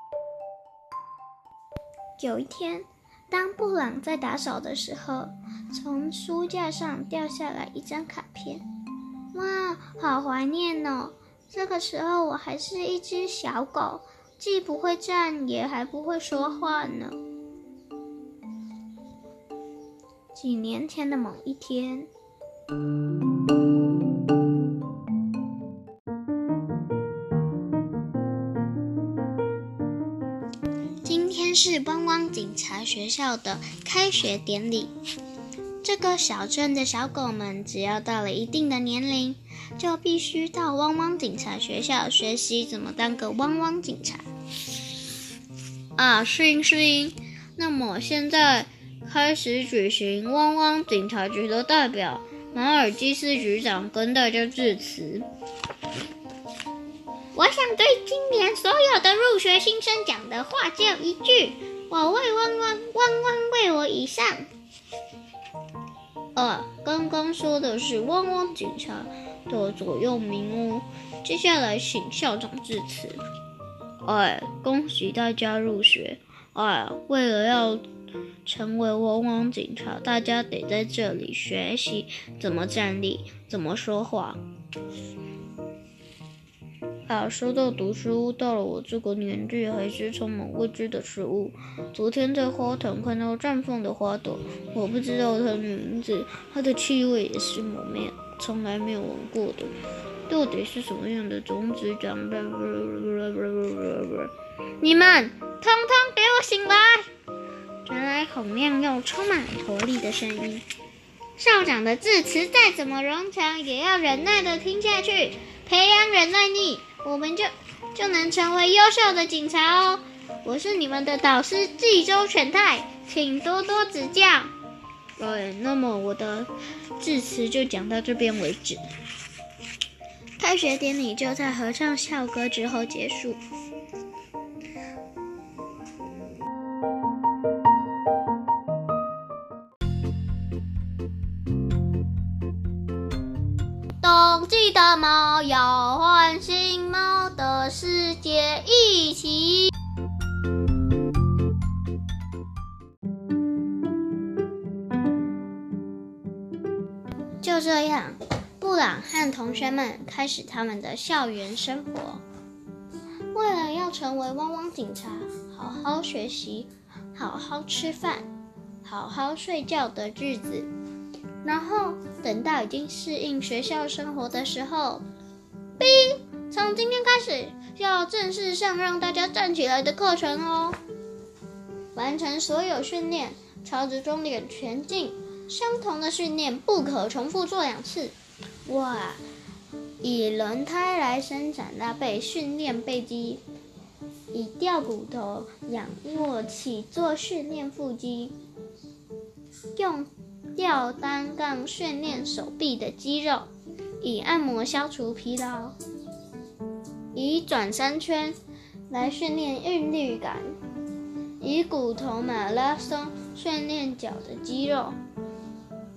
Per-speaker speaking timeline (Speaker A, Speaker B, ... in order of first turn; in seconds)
Speaker A: 2.2-8.6, 9.3-17.2, 20.3-22.1, 31.0-34.9, 35.8-44.2, 46.0-55.3, 57.3-64.5, 66.3-73.2, 74.0-77.8, 78.5-84.4, 87.1-99.7, 100.3-107.1, 107.8-110.6, 111.4-124.5, 125.2-128.8, 130.4-133.4, 144.0-149.7, 157.4-162.2, 163.3-168.3, 168.8-170.7, 171.4-175.0, 175.8-180.8, 181.9-188.1, 188.7-189.2, 190.0-193.4, 194.3-198.3, 199.8-203.5, 204.0-205.8, 207.1-208.4, 208.9-210.6, 211.4-215.0